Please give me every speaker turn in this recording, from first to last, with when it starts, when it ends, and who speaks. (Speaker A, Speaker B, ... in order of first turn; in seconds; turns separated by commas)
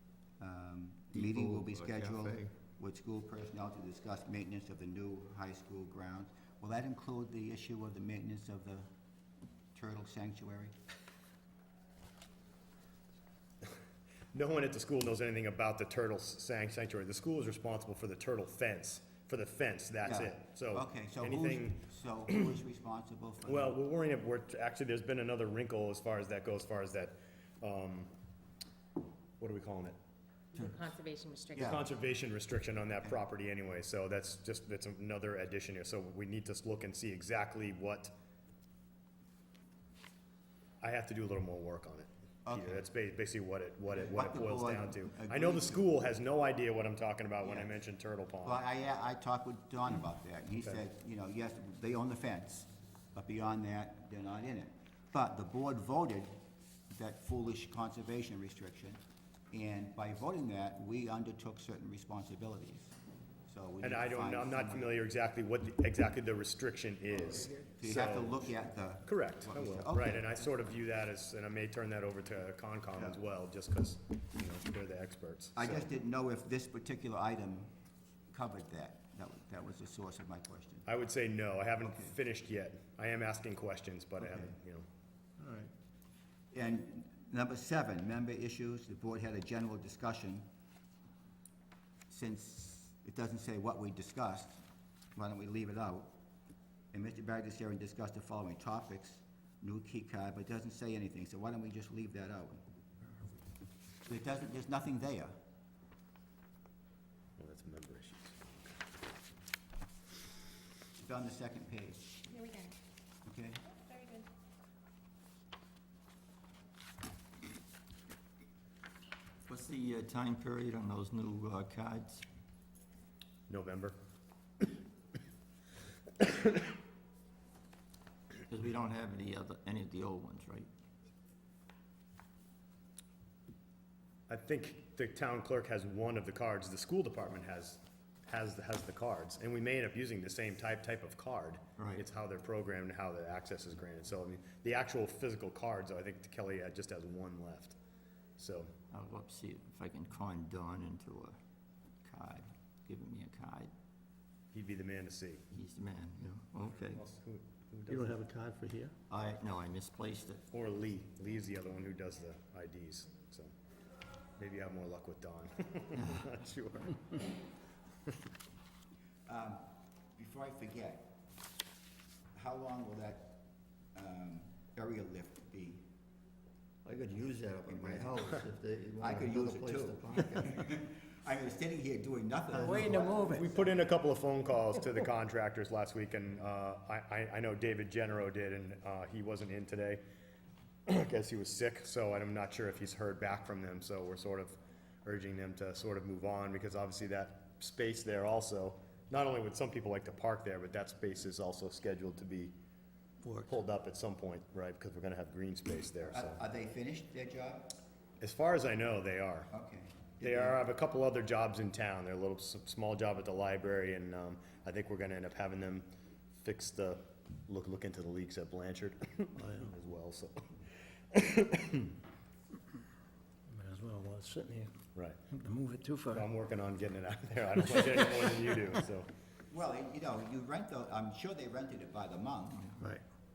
Speaker A: 0.4-8.9, Speaker B: 1.1-2.5, Speaker A: 9.7-10.7, Speaker C: 14.3-21.8, Speaker A: 20.0-23.8, Speaker C: 23.4-28.1, Speaker C: 29.4-29.9, Speaker A: 30.5-30.9, Speaker D: 30.5-31.8, Speaker A: 31.5-31.9, Speaker C: 31.6-38.1, Speaker C: 40.8-48.6, Speaker A: 42.4-42.8, Speaker A: 43.9-45.9, Speaker A: 47.4-47.7, Speaker A: 48.4-56.4, Speaker A: 56.9-59.0, Speaker A: 59.5-63.0, Speaker A: 63.5-65.0, Speaker C: 63.8-68.4, Speaker A: 67.8-70.3, Speaker C: 69.0-75.9, Speaker A: 75.5-77.7, Speaker A: 78.3-80.9, Speaker C: 80.9-84.8, Speaker A: 81.8-82.1, Speaker A: 84.2-84.5, Speaker A: 86.5-90.5, Speaker A: 92.1-94.6, Speaker A: 95.1-96.1, Speaker A: 96.9-102.6, Speaker A: 104.1-105.3, Speaker C: 107.4-108.7, Speaker A: 111.0-112.2, Speaker D: 112.3-112.7, Speaker A: 113.2-113.6, Speaker D: 113.8-114.2, Speaker B: 119.5-122.2, Speaker C: 123.5-124.0, Speaker C: 126.2-126.5, Speaker B: 128.5-130.7, Speaker C: 134.3-147.8, Speaker B: 141.8-142.0, Speaker C: 148.4-148.7, Speaker B: 148.9-151.4, Speaker B: 152.0-153.7, Speaker C: 154.5-155.4, Speaker B: 155.5-157.0, Speaker C: 156.6-158.2, Speaker E: 157.9-158.9, Speaker B: 159.1-160.4, Speaker C: 160.5-163.5, Speaker C: 164.4-167.2, Speaker B: 165.9-166.3, Speaker A: 169.3-171.1, Speaker A: 172.3-173.4, Speaker A: 173.9-175.8, Speaker B: 176.8-180.6, Speaker A: 177.7-178.2, Speaker A: 179.0-183.7, Speaker C: 183.2-190.0, Speaker C: 190.9-202.5, Speaker E: 203.2-203.5, Speaker C: 203.3-206.4, Speaker A: 206.0-207.7, Speaker C: 208.2-209.5, Speaker A: 209.5-210.6, Speaker C: 210.2-220.4, Speaker E: 219.3-219.7, Speaker C: 221.1-221.9, Speaker E: 223.5-224.7, Speaker C: 224.9-225.2, Speaker E: 225.3-226.2, Speaker C: 226.1-229.1, Speaker A: 229.5-232.7, Speaker B: 232.6-232.9